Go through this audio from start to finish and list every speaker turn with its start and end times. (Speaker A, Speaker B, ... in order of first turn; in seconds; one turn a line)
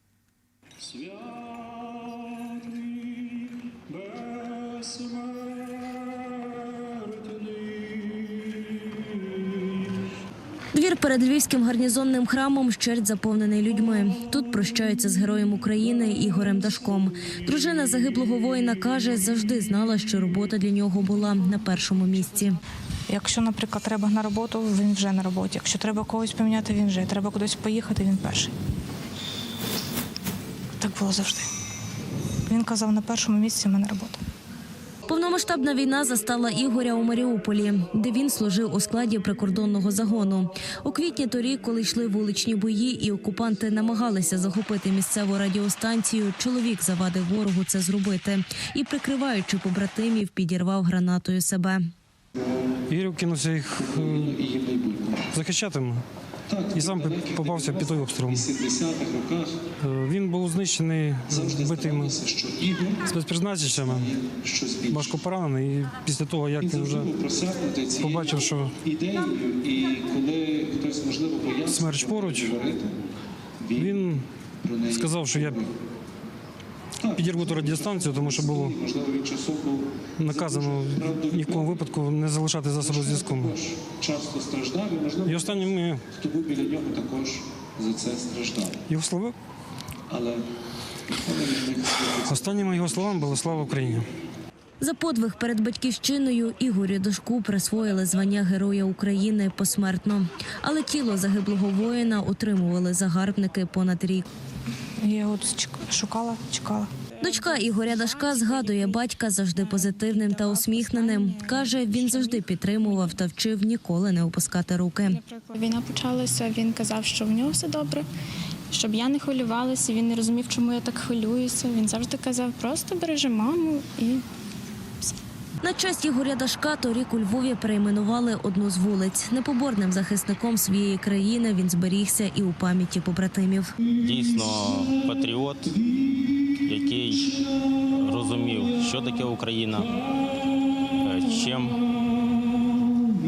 Speaker A: 1.0-2.0
Speaker A: 2.6-3.1
Speaker A: 4.0-5.5
Speaker A: 7.3-7.9
Speaker B: 10.7-22.6
Speaker C: 23.1-28.5
Speaker C: 30.8-31.5
Speaker C: 32.5-34.2
Speaker B: 35.1-51.8
Speaker A: 52.9-54.4
Speaker D: 53.7-55.4
Speaker A: 55.3-56.0
Speaker D: 56.5-59.6
Speaker A: 56.7-58.5
Speaker A: 59.8-62.1
Speaker D: 61.3-63.1
Speaker A: 63.1-64.1
Speaker D: 63.7-65.2
Speaker A: 64.9-67.1
Speaker D: 66.6-72.9
Speaker A: 68.0-68.8
Speaker A: 71.7-72.6
Speaker D: 73.6-75.7
Speaker A: 73.8-74.2
Speaker A: 74.9-75.6
Speaker D: 77.0-82.0
Speaker A: 77.1-78.8
Speaker A: 80.2-83.5
Speaker D: 82.7-88.8
Speaker A: 85.2-86.1
Speaker A: 88.9-89.3
Speaker D: 90.1-90.4
Speaker D: 91.2-94.0
Speaker A: 92.1-94.0
Speaker B: 94.8-104.2
Speaker C: 105.0-106.9
Speaker B: 107.2-115.2
Speaker E: 107.3-109.0
Speaker E: 109.7-113.2
Speaker E: 115.1-118.1
Speaker E: 118.7-124.2
Speaker B: 125.6-133.7
Speaker F: 134.0-135.8
Speaker F: 136.6-139.9
Speaker F: 141.0-141.8